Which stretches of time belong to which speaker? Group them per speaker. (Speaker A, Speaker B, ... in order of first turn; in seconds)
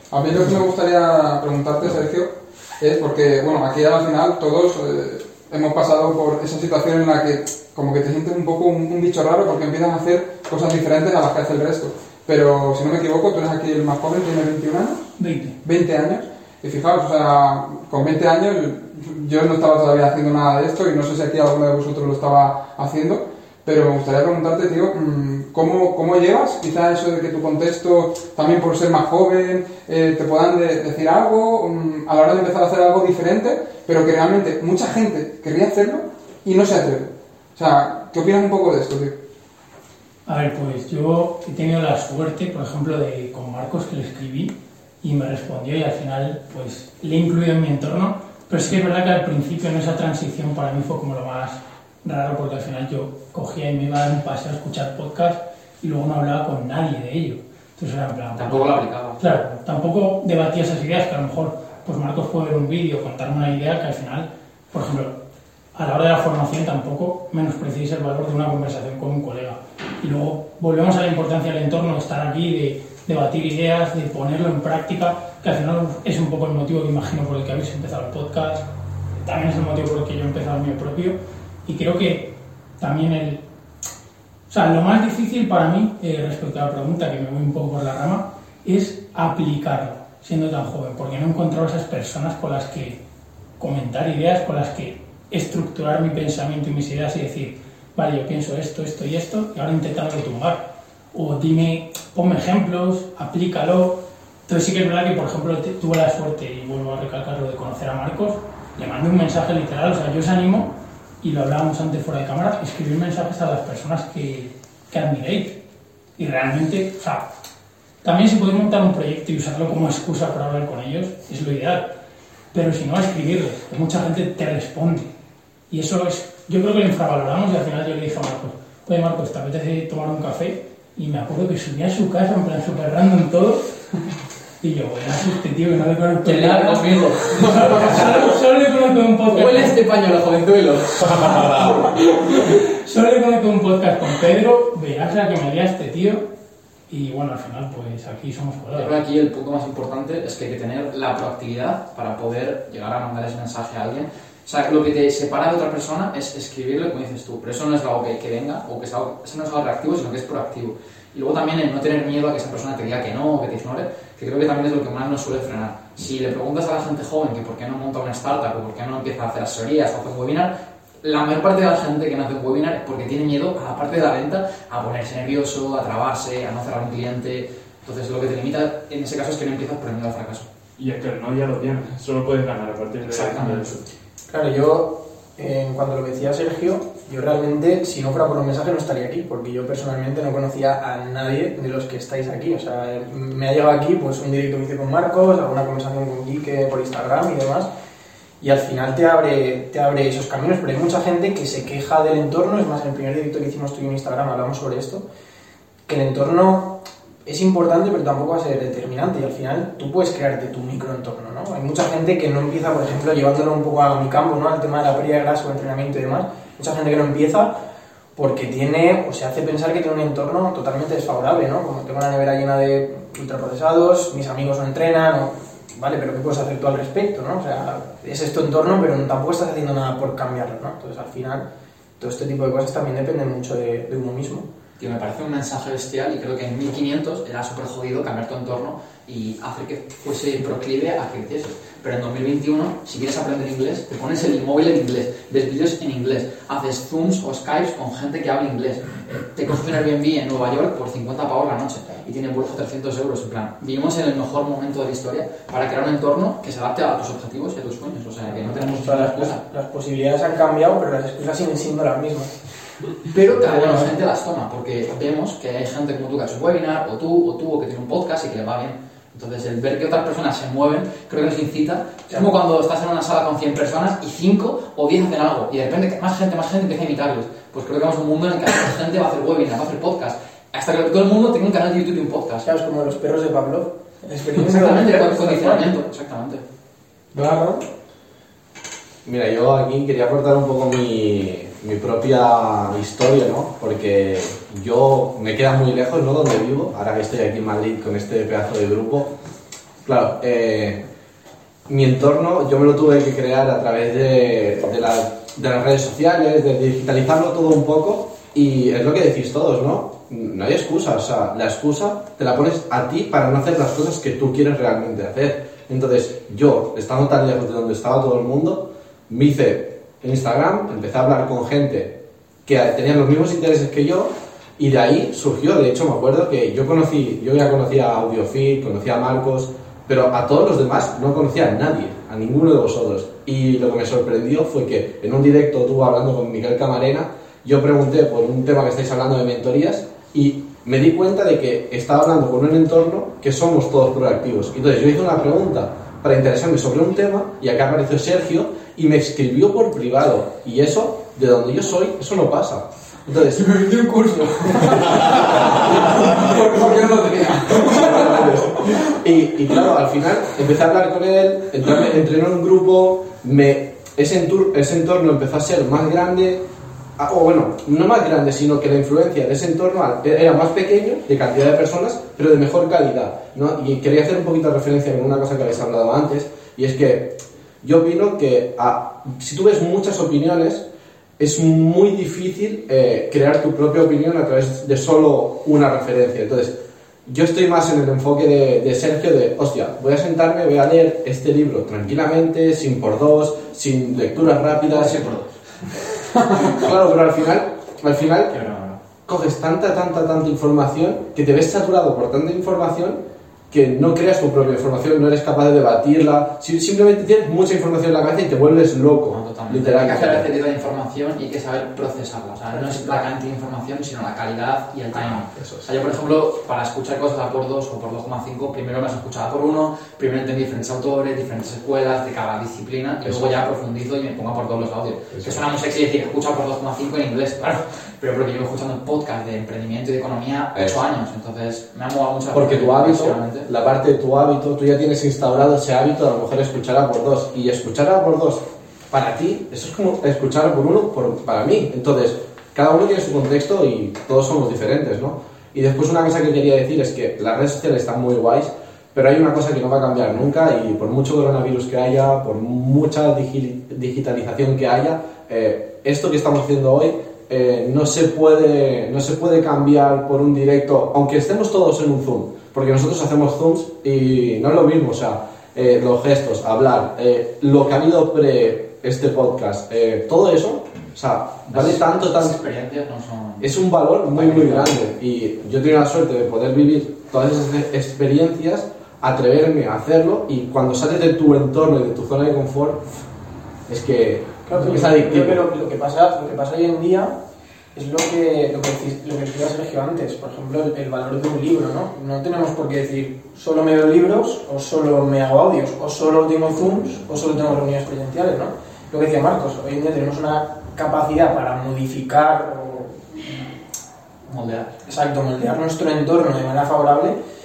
Speaker A: 0.1-15.1, 15.6-39.2, 287.1-287.7, 353.3-358.8
Speaker B: 15.2-15.6, 40.3-65.2, 65.8-78.7, 79.2-83.4, 84.5-93.0, 93.6-115.6, 116.2-117.3, 118.0-122.0, 122.5-125.1, 125.7-133.8, 134.6-139.8, 141.1-146.3, 146.9-148.9
Speaker C: 58.4-59.4, 136.2-138.3, 139.3-141.9, 148.7-180.5, 183.1-183.7, 234.8-259.4, 263.1-282.5, 284.4-286.4, 394.6-395.3, 398.3-398.8, 409.1-433.5, 471.5-474.8, 504.3-504.8
Speaker D: 180.8-183.8
Speaker E: 184.3-197.7, 198.4-205.1, 205.9-217.6, 218.2-234.5, 258.3-262.4, 263.5-263.8, 282.4-285.8, 412.5-412.8, 484.5-487.2, 487.7-503.4, 504.9-507.2
Speaker F: 289.0-299.1, 299.8-300.9, 301.7-356.9, 357.5-366.4, 367.0-380.7, 381.2-395.1, 396.4-398.4, 399.1-410.3, 414.9-415.7, 423.1-423.4, 425.1-425.4, 430.6-430.8, 432.3-472.4, 473.4-483.0, 483.7-485.4